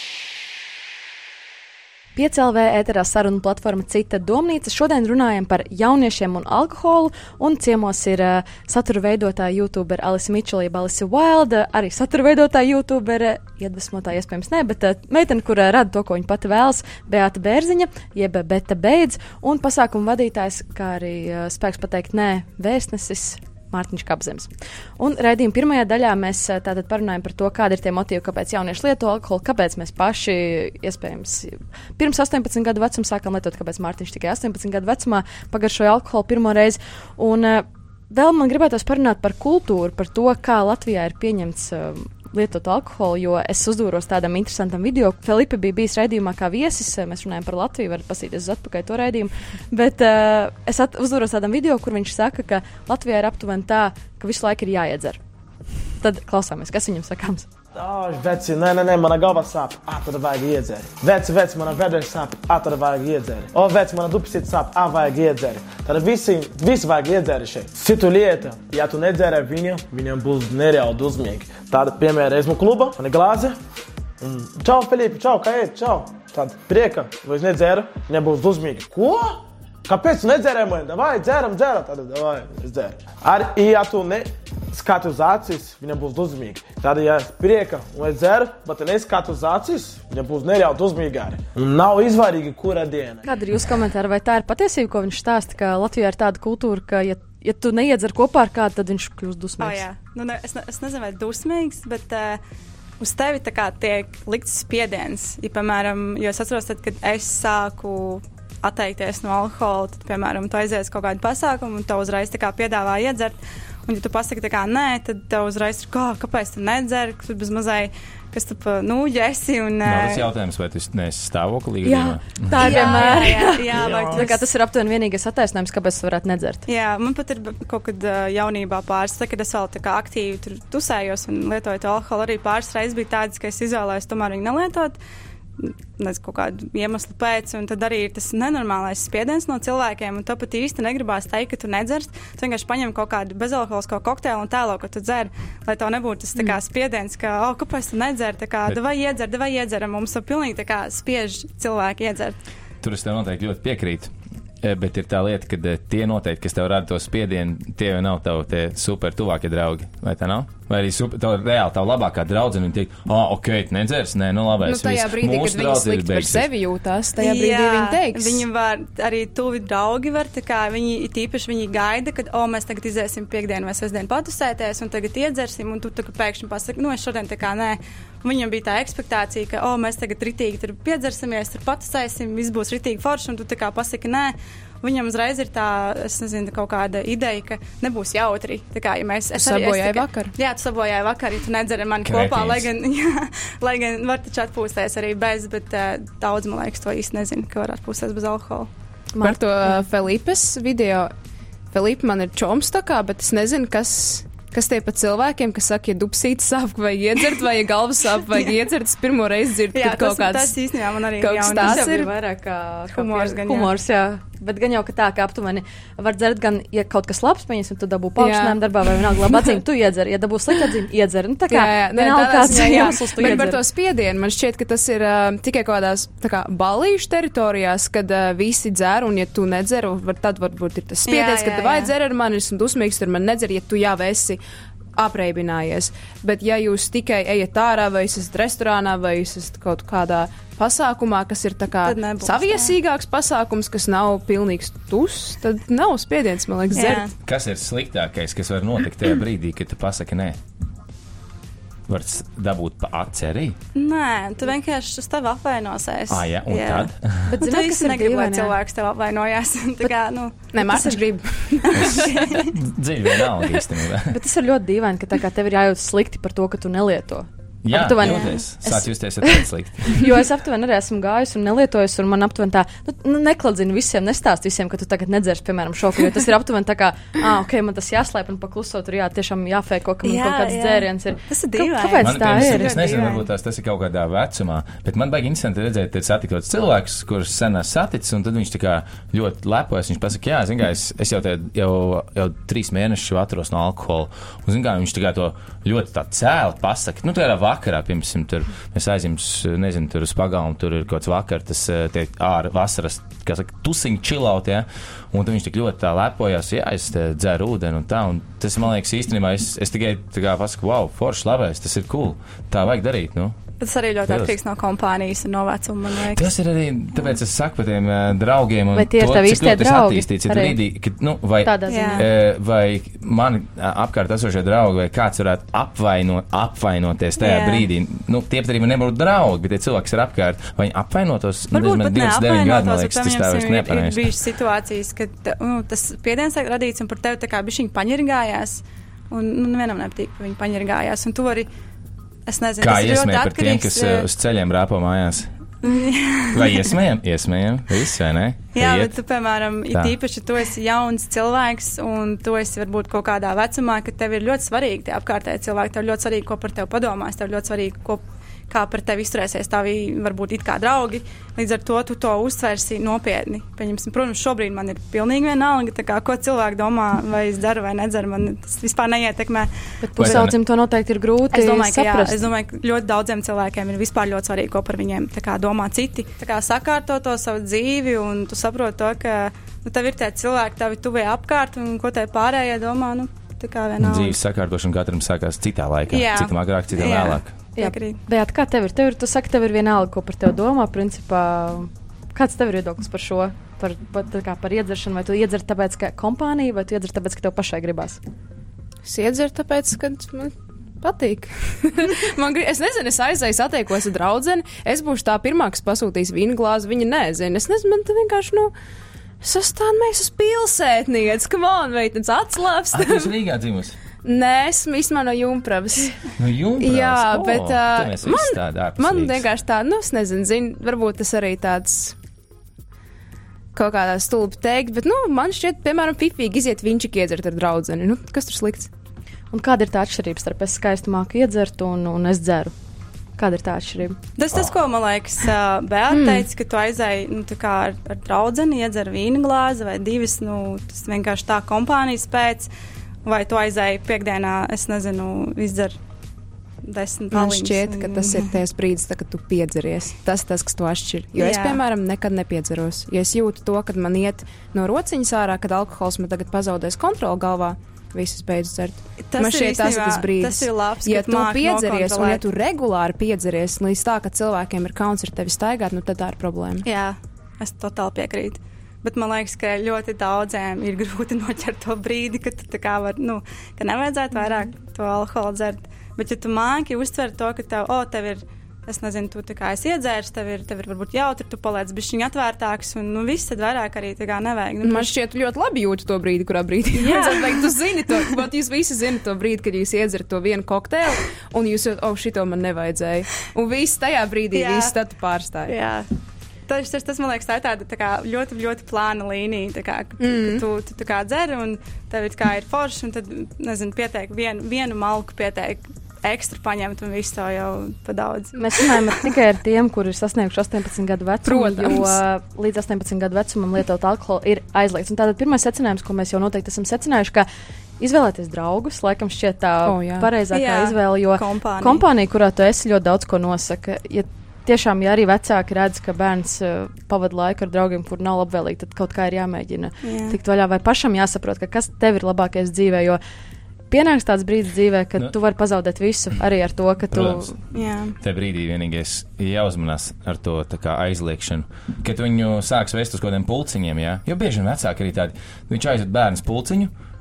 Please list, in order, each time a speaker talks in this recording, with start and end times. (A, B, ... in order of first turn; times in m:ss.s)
0:02.2-0:55.2 A
0:56.0-0:57.5 A
0:57.8-1:13.6 B
1:14.2-1:33.2 B
1:33.2-1:39.9 A
1:39.6-1:42.4 C
1:43.0-2:00.3 C
1:59.8-2:04.3 D
2:01.8-2:06.6 A
2:02.6-2:04.4 C
2:06.7-2:15.0 C
2:15.6-2:32.4 C
2:32.8-2:46.5 D
2:44.6-2:48.5 E
2:47.2-3:18.7 C
3:09.3-3:10.3 E
3:12.0-3:12.7 D
3:19.1-3:19.4 A
3:19.2-3:21.1 E
3:21.7-3:30.6 E
3:29.7-3:32.1 C
3:31.2-3:32.0 E
3:31.5-3:43.6 A
3:32.9-3:33.7 C
3:38.2-3:39.5 E
3:41.5-3:54.4 E
3:51.1-3:51.9 C
3:55.0-4:07.0 E
4:01.8-4:02.8 C
4:06.7-4:07.1 C
4:07.3-4:10.4 D
4:11.9-4:13.6 D
4:13.8-4:20.8 C
4:16.1-4:17.4 D
4:17.3-4:18.5 A
4:20.5-4:21.9 E
4:20.6-4:20.9 A
4:21.7-4:24.2 D
4:21.9-4:22.5 C
4:24.1-4:42.7 A
4:27.6-4:30.1 D
4:40.0-4:43.3 C
4:42.0-5:13.4 D
5:13.6-5:16.3 C
5:14.1-5:14.3 D
5:16.1-5:34.1 D
5:18.7-5:20.6 A
5:21.4-5:22.1 A
5:21.7-5:22.0 C
5:27.2-5:27.7 C
5:31.5-5:41.5 C
5:42.3-5:44.1 C
5:42.6-5:45.3 D
5:45.6-5:46.7 C
5:46.3-5:48.9 D
5:48.6-6:09.5 C
6:09.8-6:12.2 A
6:10.0-6:10.4 D
6:11.3-6:24.2 C
6:23.8-6:27.3 D
6:25.9-6:28.0 C
6:27.6-6:38.0 A
6:38.8-6:48.5 E
6:49.2-6:53.1 E
6:52.7-6:53.8 D
6:54.0-7:02.0 E
6:56.2-6:59.3 D
7:03.5-7:08.7 E
7:09.3-7:12.5 A
7:13.2-7:14.0 A
7:14.2-7:22.5 C
7:15.9-7:16.3 E
7:23.0-7:25.8 C
7:26.6-7:28.3 C
7:27.1-7:46.7 E
7:31.2-7:31.6 C
7:39.1-7:42.2 C
7:46.6-8:04.9 C
8:04.6-8:15.5 E
8:06.7-8:07.6 C
8:14.3-8:14.8 C
8:15.5-8:15.9 C
8:16.5-8:29.0 C
8:20.0-8:20.4 E
8:28.4-8:37.3 A
8:31.2-8:32.0 E
8:37.8-8:53.0 A
8:39.6-8:40.1 E
8:40.3-8:41.8 C
8:49.8-8:50.2 C
8:53.7-8:57.3 A
8:56.9-8:57.4 D
8:57.5-8:58.0 C
8:58.0-9:06.7 D